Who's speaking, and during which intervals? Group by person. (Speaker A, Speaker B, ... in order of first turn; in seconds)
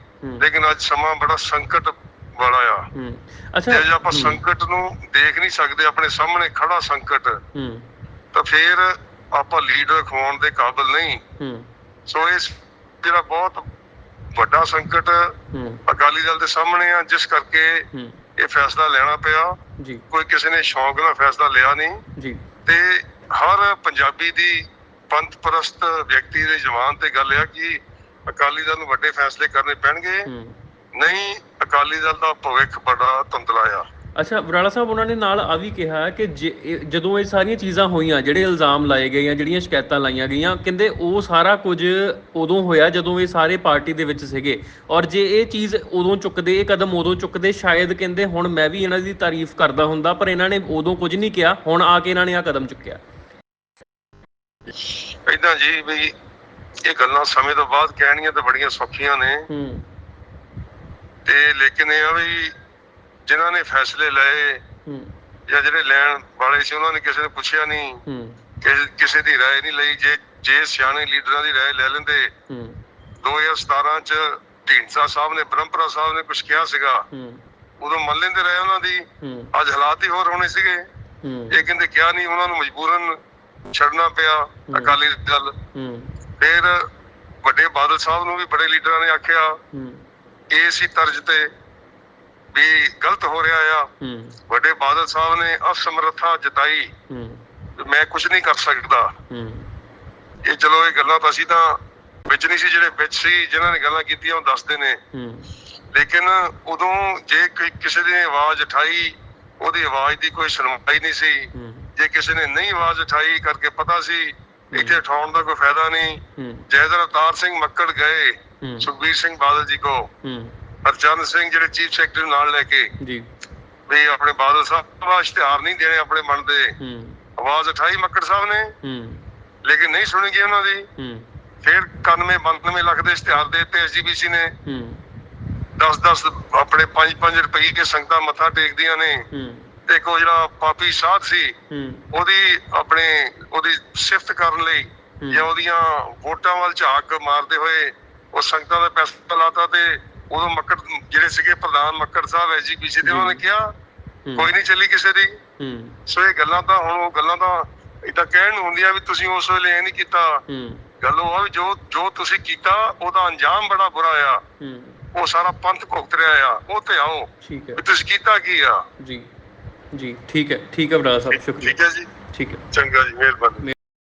Speaker A: 0.4-2.9, 3.7-7.4, 8.3-11.2, 12.1-13.6, 14.3-15.3, 15.9-17.9, 18.4-19.6, 20.1-22.0, 22.7-30.3, 31.0-33.9, 54.9-56.1, 56.9-59.5, 61.2-62.5, 63.3-64.6, 65.5-68.0, 68.6-72.3, 73.2-77.0, 77.8-80.8, 81.5-83.2, 83.7-85.5, 86.4-86.8, 87.4-89.6, 90.5-91.5, 92.5-93.9, 94.5-96.9, 97.8-99.1, 100.5-105.0, 105.9-120.1, 120.8-122.9, 123.9-126.7, 127.4-128.7, 129.7-130.9, 131.6-134.5, 135.8-139.2, 139.9-141.5, 142.1-153.7, 154.4-155.4, 156.1-160.4, 161.0-164.4, 165.1-168.8, 171.3-172.1, 172.7-173.6
Speaker B: 2.9-4.4, 7.5-7.9, 11.4-11.7, 15.5-15.8, 17.9-18.2, 19.8-20.1, 22.2-22.4, 30.3-30.6, 34.2-53.0, 59.5-59.9, 64.8-65.1, 68.1-68.4, 72.5-72.8, 77.1-77.4, 79.2-79.5, 81.2-81.6, 84.7-85.0, 85.7-86.1, 89.7-90.0, 94.0-94.4, 97.1-97.4, 99.3-99.7, 105.1-105.5, 111.5-111.9, 114.7-115.0, 116.4-116.7, 118.6-118.9, 120.2-120.6, 123.0-123.3, 126.8-127.2, 128.8-129.2, 131.0-131.3, 134.7-135.0, 139.3-139.7, 141.7-142.1, 145.2-145.5, 153.0-153.4, 154.3-154.5, 155.6-156.0, 160.5-160.8, 164.6-165.0, 167.4-167.8, 169.0-169.3, 169.9-171.8, 172.3-172.7